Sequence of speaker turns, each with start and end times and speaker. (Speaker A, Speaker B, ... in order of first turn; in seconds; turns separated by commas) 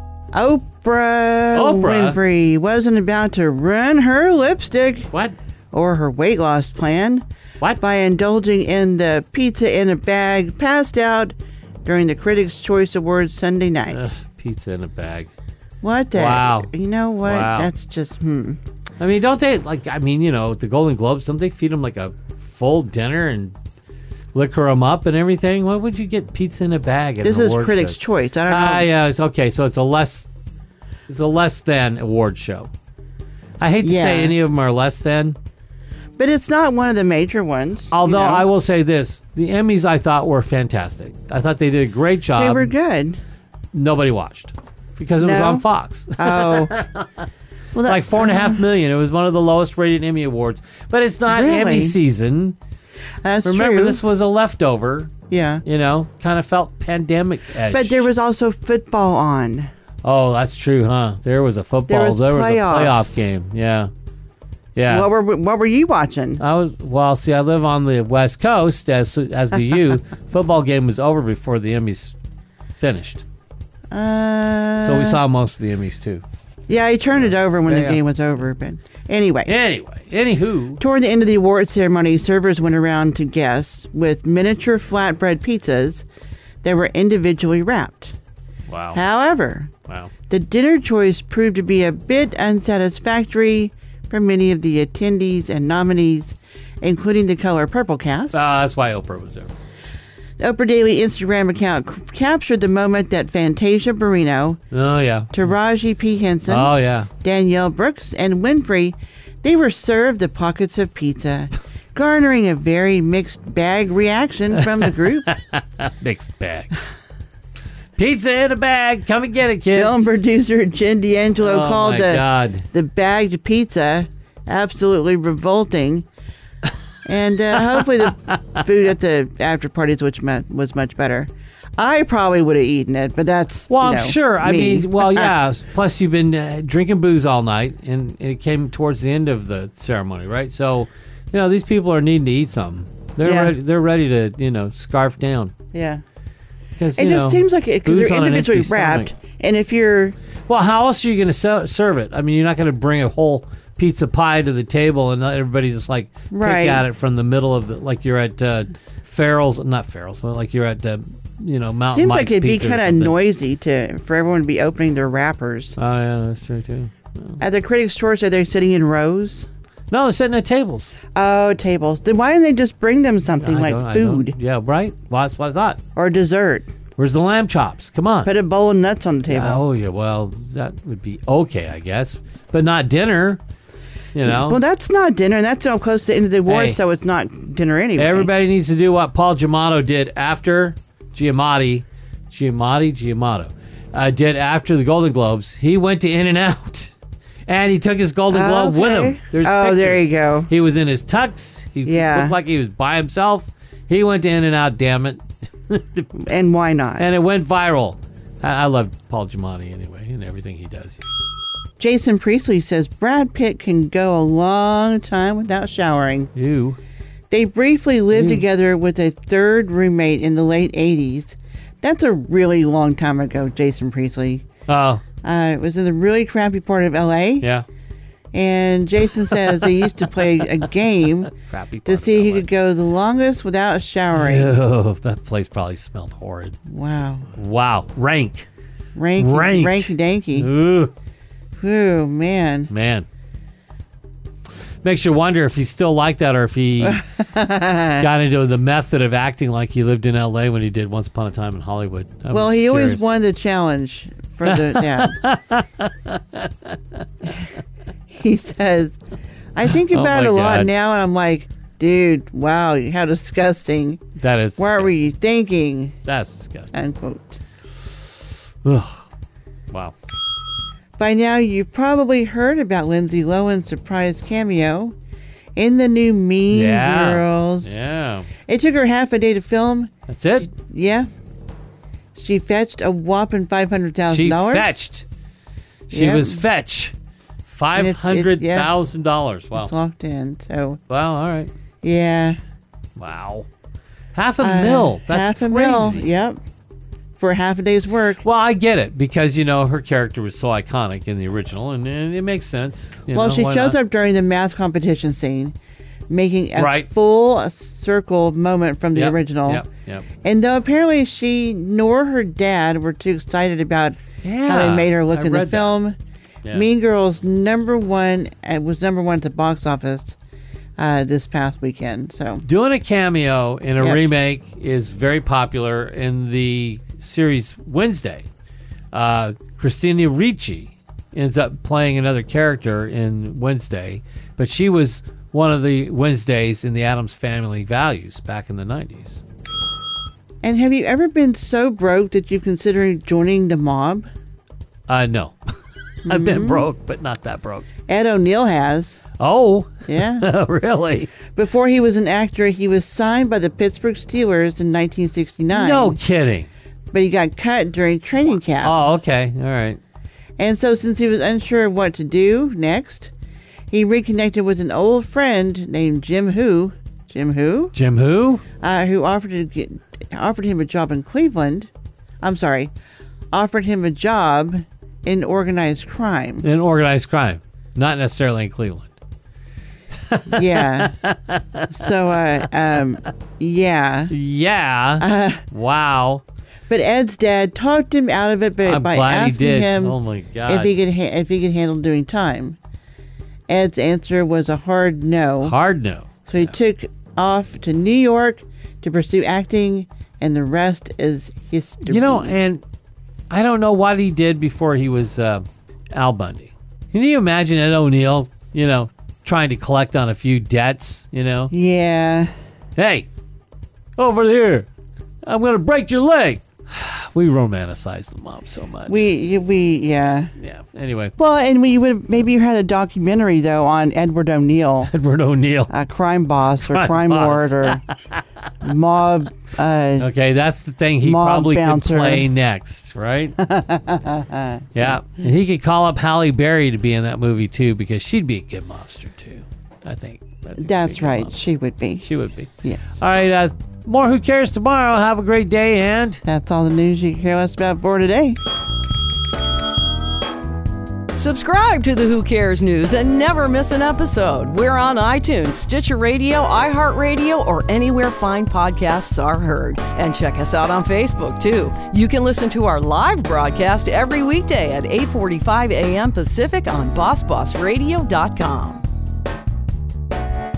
Speaker A: 0.3-5.1, Speaker B: 1.5-2.2, Speaker A: 5.7-7.2, Speaker A: 7.8-14.0, Speaker B: 13.9-15.3, Speaker A: 15.8-18.6, Speaker B: 16.1-16.7, Speaker B: 17.2-17.7, Speaker B: 19.0-23.6, Speaker B: 24.3-30.3, Speaker A: 27.2-28.9, Speaker B: 31.1-32.7, Speaker B: 33.6-35.4, Speaker A: 33.8-34.4, Speaker A: 36.2-38.5, Speaker B: 37.9-42.7, Speaker A: 42.4-43.2, Speaker B: 43.7-47.1, Speaker A: 45.2-45.6, Speaker A: 46.2-46.7, Speaker A: 47.7-48.6, Speaker B: 47.8-52.6, Speaker A: 51.3-52.0, Speaker A: 53.2-54.0, Speaker B: 53.4-55.1, Speaker A: 55.3-55.6, Speaker B: 55.6-58.1, Speaker A: 57.7-59.7, Speaker B: 60.0-63.9, Speaker A: 61.9-63.2, Speaker B: 64.8-65.1, Speaker A: 64.9-66.4, Speaker B: 66.4-72.2, Speaker B: 72.8-73.2, Speaker A: 73.9-75.2, Speaker B: 74.8-76.2, Speaker A: 76.7-79.5, Speaker B: 77.7-78.0, Speaker B: 79.5-80.8, Speaker A: 80.8-86.0, Speaker A: 86.6-88.2, Speaker B: 88.7-89.0, Speaker A: 88.9-89.7, Speaker A: 90.3-98.4, Speaker B: 98.3-99.5, Speaker A: 100.4-104.6, Speaker B: 104.7-105.3, Speaker A: 105.3-115.3, Speaker B: 106.5-107.1, Speaker B: 114.6-116.7, Speaker B: 118.0-120.2, Speaker A: 119.7-126.0, Speaker B: 121.4-122.7, Speaker A: 127.0-135.3, Speaker B: 133.7-145.5, Speaker A: 143.2-143.5, Speaker A: 145.7-146.0, Speaker B: 146.8-149.1, Speaker A: 146.9-150.2, Speaker B: 150.5-163.2, Speaker A: 156.3-156.9, Speaker A: 161.9-165.8, Speaker B: 165.8-167.4, Speaker A: 167.4-169.5, Speaker B: 169.9-171.0, Speaker A: 171.2-174.4, Speaker B: 173.4-175.8, Speaker A: 175.9-176.7, Speaker B: 177.0-178.3, Speaker A: 178.2-179.6, Speaker B: 179.3-183.4, Speaker B: 184.1-184.6, Speaker A: 184.2-188.3, Speaker B: 186.5-186.8, Speaker B: 188.0-196.9, Speaker B: 197.5-206.1, Speaker A: 198.3-200.5, Speaker A: 201.8-202.4, Speaker A: 206.1-207.1, Speaker B: 207.0-211.0, Speaker A: 211.8-216.3, Speaker B: 216.3-216.8, Speaker A: 217.3-224.5, Speaker B: 218.1-218.4, Speaker B: 224.7-225.0, Speaker A: 225.2-227.5, Speaker A: 228.3-231.3, Speaker B: 231.4-232.5, Speaker A: 231.9-234.5, Speaker B: 234.1-236.6, Speaker A: 236.7-237.3, Speaker B: 237.3-238.5, Speaker A: 239.0-240.5, Speaker B: 239.2-240.9, Speaker A: 241.6-242.7, Speaker B: 242.7-243.1, Speaker B: 244.8-247.0, Speaker A: 246.8-248.1, Speaker B: 248.0-253.1, Speaker A: 252.3-255.2, Speaker B: 254.5-256.7, Speaker A: 258.1-259.0, Speaker A: 259.6-264.1, Speaker B: 259.7-260.7, Speaker B: 264.2-265.0, Speaker A: 264.6-266.0, Speaker B: 266.1-266.7, Speaker A: 266.7-267.4, Speaker B: 268.6-269.1, Speaker A: 271.0-274.9, Speaker A: 275.6-277.7, Speaker B: 276.5-278.3, Speaker A: 278.5-279.9, Speaker B: 280.1-280.5, Speaker A: 280.5-281.1, Speaker A: 282.1-284.8, Speaker B: 284.1-285.1, Speaker B: 285.9-286.9, Speaker A: 285.9-286.4, Speaker B: 287.5-289.7, Speaker A: 287.7-288.7, Speaker A: 289.6-290.8, Speaker B: 290.9-291.5, Speaker A: 291.8-292.4, Speaker B: 293.0-293.5, Speaker B: 294.1-296.1, Speaker A: 294.4-296.4, Speaker A: 297.2-298.2, Speaker B: 298.2-303.8, Speaker A: 303.1-305.6, Speaker A: 306.1-309.7, Speaker B: 306.6-306.9, Speaker B: 308.9-310.1, Speaker A: 310.2-316.0, Speaker B: 314.2-315.8, Speaker A: 316.5-320.2, Speaker A: 320.8-322.4, Speaker B: 322.4-328.3, Speaker A: 323.8-324.1, Speaker B: 328.9-339.2, Speaker A: 340.4-344.1, Speaker B: 344.9-345.4, Speaker B: 346.0-347.7, Speaker A: 346.1-346.7, Speaker A: 347.9-349.0, Speaker B: 349.2-351.1, Speaker A: 349.9-350.3, Speaker A: 351.3-356.0, Speaker B: 355.5-356.5, Speaker A: 356.9-358.8, Speaker B: 358.6-359.8, Speaker A: 360.4-363.1, Speaker A: 363.7-367.7, Speaker B: 367.7-368.4, Speaker A: 368.6-371.7, Speaker A: 372.2-372.7, Speaker A: 373.3-376.4, Speaker B: 376.4-378.9, Speaker B: 380.1-381.7, Speaker A: 380.3-380.9, Speaker A: 381.7-384.1, Speaker B: 384.1-386.2, Speaker A: 385.0-385.4, Speaker A: 386.7-392.6, Speaker B: 388.6-390.7, Speaker A: 393.5-395.6, Speaker B: 395.4-396.5, Speaker A: 396.3-402.4, Speaker B: 401.8-402.6, Speaker B: 403.3-411.5, Speaker A: 411.5-412.3, Speaker B: 412.8-413.1, Speaker B: 414.0-414.7, Speaker B: 415.2-419.1, Speaker A: 418.9-420.3, Speaker B: 420.4-421.1, Speaker A: 421.2-424.9, Speaker B: 424.9-425.7, Speaker A: 425.7-427.8, Speaker B: 426.6-428.2, Speaker A: 428.6-430.1, Speaker B: 430.0-433.4, Speaker A: 431.0-432.3, Speaker A: 433.4-434.7, Speaker B: 434.7-441.4, Speaker A: 440.6-442.1, Speaker B: 442.0-446.2, Speaker A: 446.2-448.4, Speaker C: 451.1-468.8